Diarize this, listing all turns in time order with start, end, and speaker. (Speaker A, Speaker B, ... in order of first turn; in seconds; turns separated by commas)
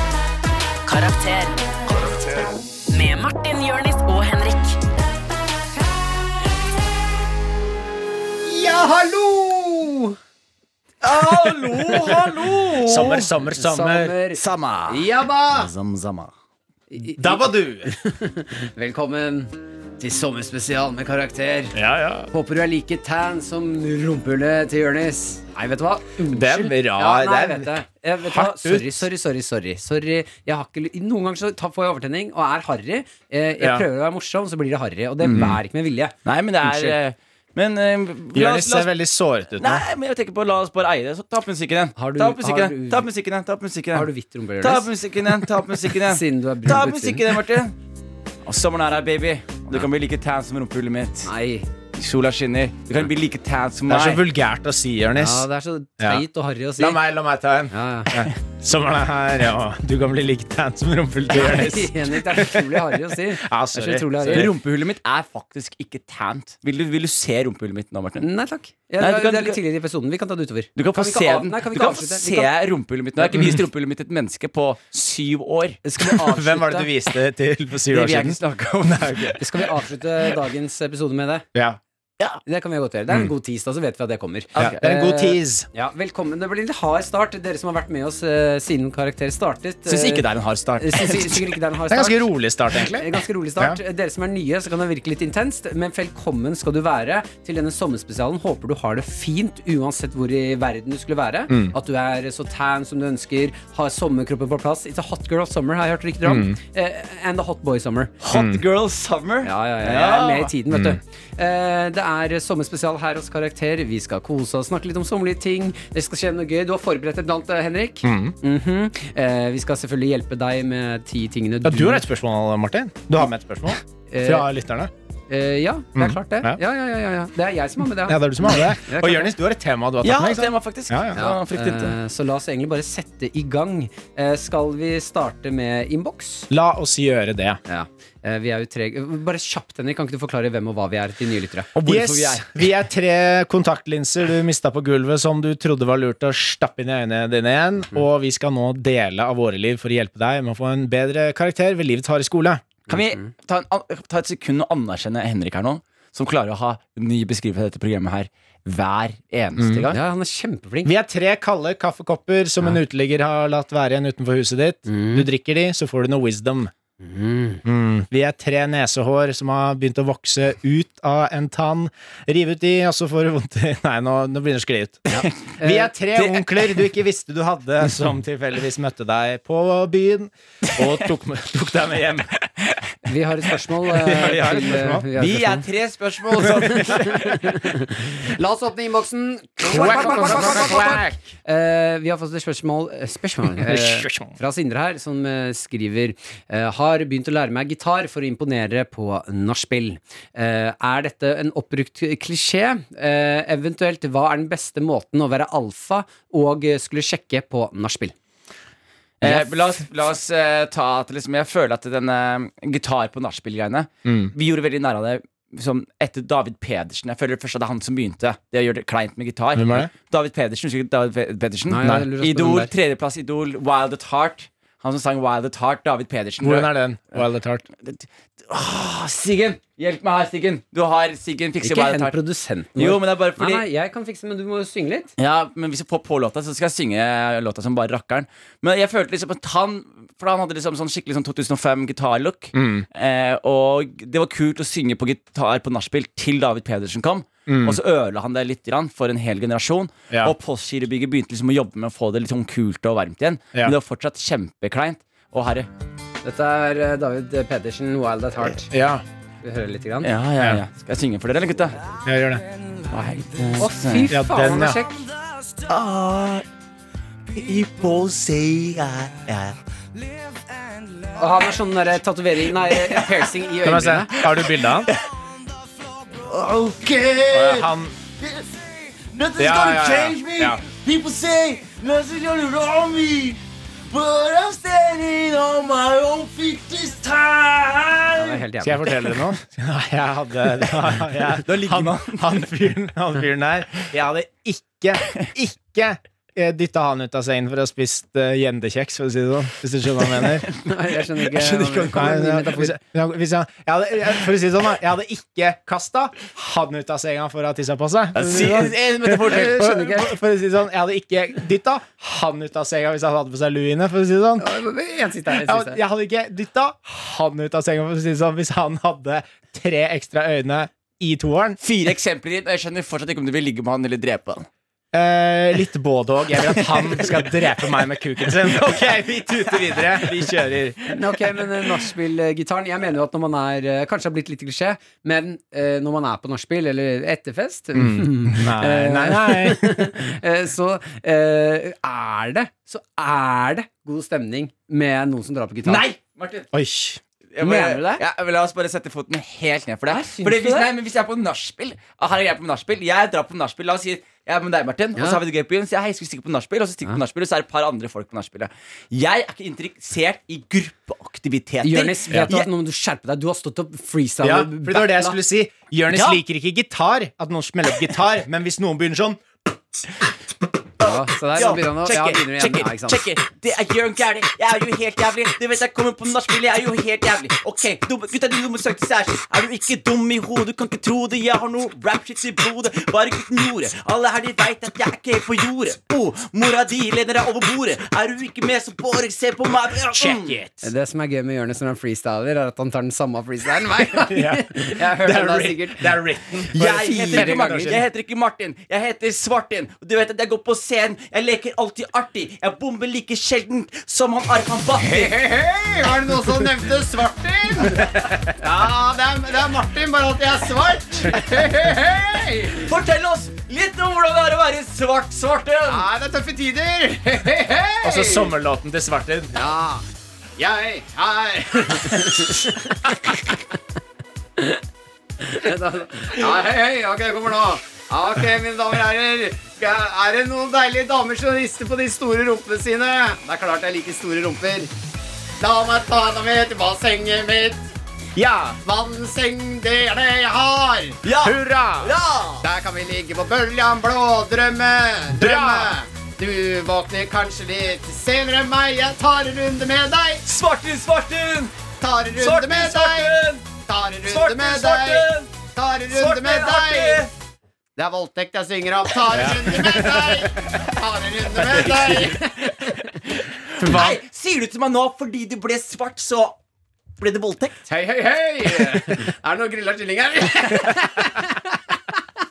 Speaker A: 0.9-1.8, Speaker A: 2.9-4.8, Speaker B: 8.4-10.2, Speaker C: 11.0-13.3, Speaker D: 12.8-14.1, Speaker B: 13.6-15.7, Speaker C: 14.3-16.3, Speaker B: 16.9-21.8, Speaker D: 17.2-17.9, Speaker D: 21.7-22.3, Speaker B: 22.3-36.9, Speaker D: 26.3-29.0, Speaker D: 33.6-33.9, Speaker C: 35.2-35.5, Speaker D: 35.3-35.6, Speaker C: 36.3-38.9, Speaker D: 38.3-39.9, Speaker C: 39.6-44.1, Speaker B: 42.0-43.0, Speaker B: 43.9-44.9, Speaker C: 44.6-47.8, Speaker B: 46.0-47.2, Speaker C: 48.5-51.3, Speaker B: 51.2-51.7, Speaker C: 52.0-54.2, Speaker D: 53.9-55.5, Speaker B: 55.2-57.0, Speaker D: 56.8-64.5, Speaker B: 57.7-58.2, Speaker B: 61.3-64.5, Speaker C: 64.3-68.3, Speaker B: 68.2-72.5, Speaker C: 69.0-69.6, Speaker C: 70.8-75.8, Speaker B: 73.2-73.5, Speaker B: 75.8-76.9, Speaker D: 76.0-79.4, Speaker C: 77.9-79.4, Speaker B: 79.4-81.5, Speaker D: 81.5-81.8, Speaker B: 82.5-90.2, Speaker D: 84.6-85.7, Speaker C: 89.9-91.5, Speaker B: 90.8-108.2, Speaker D: 91.9-93.8, Speaker D: 106.2-106.6, Speaker C: 108.2-110.5, Speaker D: 108.3-108.6, Speaker B: 109.4-122.0, Speaker D: 110.7-111.0, Speaker D: 118.0-118.3, Speaker D: 121.6-124.9, Speaker B: 124.1-124.5, Speaker B: 125.3-129.3, Speaker D: 126.0-126.6, Speaker D: 128.0-131.3, Speaker C: 130.0-131.9, Speaker B: 131.1-136.5, Speaker D: 136.5-137.6, Speaker B: 137.7-141.7, Speaker C: 141.8-142.5, Speaker D: 141.8-152.7, Speaker C: 152.9-160.0, Speaker B: 152.9-153.3, Speaker D: 159.6-159.8, Speaker B: 159.9-160.9, Speaker D: 160.8-166.7, Speaker B: 164.9-165.3, Speaker B: 167.0-167.6, Speaker D: 167.7-182.4, Speaker B: 175.1-175.9, Speaker C: 176.2-176.5, Speaker B: 183.1-185.7, Speaker D: 183.9-185.1, Speaker C: 184.1-187.6, Speaker D: 186.4-187.0, Speaker B: 186.6-208.2, Speaker D: 189.6-191.2, Speaker C: 189.7-190.9, Speaker D: 193.6-194.3, Speaker C: 209.2-227.2, Speaker B: 209.2-209.7, Speaker D: 214.1-214.3, Speaker D: 219.6-219.9, Speaker B: 221.7-222.7, Speaker D: 221.8-222.1, Speaker D: 226.4-227.6, Speaker C: 227.8-232.2, Speaker B: 231.6-235.1, Speaker C: 232.8-233.6, Speaker C: 235.2-255.7, Speaker D: 242.5-242.9, Speaker D: 247.5-247.8, Speaker B: 256.2-258.7, Speaker D: 258.7-259.0, Speaker B: 259.4-260.1, Speaker C: 260.0-261.9, Speaker D: 262.1-262.4, Speaker C: 262.9-264.1, Speaker B: 263.6-265.1, Speaker D: 264.1-264.8, Speaker C: 265.7-266.4, Speaker C: 267.3-269.6, Speaker B: 271.1-274.1, Speaker D: 273.6-274.9, Speaker E: 276.0-288.4, Speaker D: 277.3-277.9, Speaker D: 279.4-280.6, Speaker B: 288.2-288.9, Speaker D: 288.6-300.5, Speaker C: 291.4-292.4, Speaker B: 300.6-302.8, Speaker C: 301.3-302.1, Speaker D: 301.9-314.5, Speaker C: 308.2-309.9, Speaker B: 308.2-308.7, Speaker B: 309.2-310.1, Speaker B: 314.4-315.8, Speaker D: 315.3-321.6, Speaker C: 321.6-324.5, Speaker D: 324.9-330.9, Speaker C: 326.4-327.3, Speaker C: 328.2-330.3, Speaker B: 330.9-345.9, Speaker D: 337.8-339.9, Speaker C: 345.7-346.5, Speaker D: 346.5-347.0, Speaker C: 347.3-362.5, Speaker B: 347.4-348.0, Speaker B: 349.9-350.7, Speaker B: 355.0-355.2, Speaker B: 361.6-365.2, Speaker D: 364.2-369.2, Speaker C: 365.9-366.2, Speaker B: 370.8-373.0, Speaker C: 370.8-390.4, Speaker D: 389.9-390.7, Speaker B: 390.6-396.0, Speaker D: 394.0-397.8, Speaker C: 396.5-405.2, Speaker B: 396.6-397.8, Speaker B: 404.8-412.7, Speaker C: 412.6-415.9, Speaker B: 415.7-418.3, Speaker D: 417.8-419.4, Speaker B: 419.3-419.9, Speaker B: 420.4-423.4, Speaker B: 425.2-434.7, Speaker B: 435.4-437.7, Speaker D: 438.1-438.6, Speaker B: 438.6-441.0, Speaker C: 441.0-442.4, Speaker D: 441.2-441.9, Speaker B: 442.4-450.2, Speaker D: 445.1-445.8, Speaker C: 450.2-451.5, Speaker B: 451.8-457.1, Speaker C: 452.2-453.4, Speaker C: 454.1-455.3, Speaker C: 455.9-457.1, Speaker B: 457.8-462.9, Speaker D: 459.1-460.3, Speaker C: 463.6-466.4, Speaker D: 463.6-464.0, Speaker C: 467.0-467.6, Speaker B: 467.7-471.6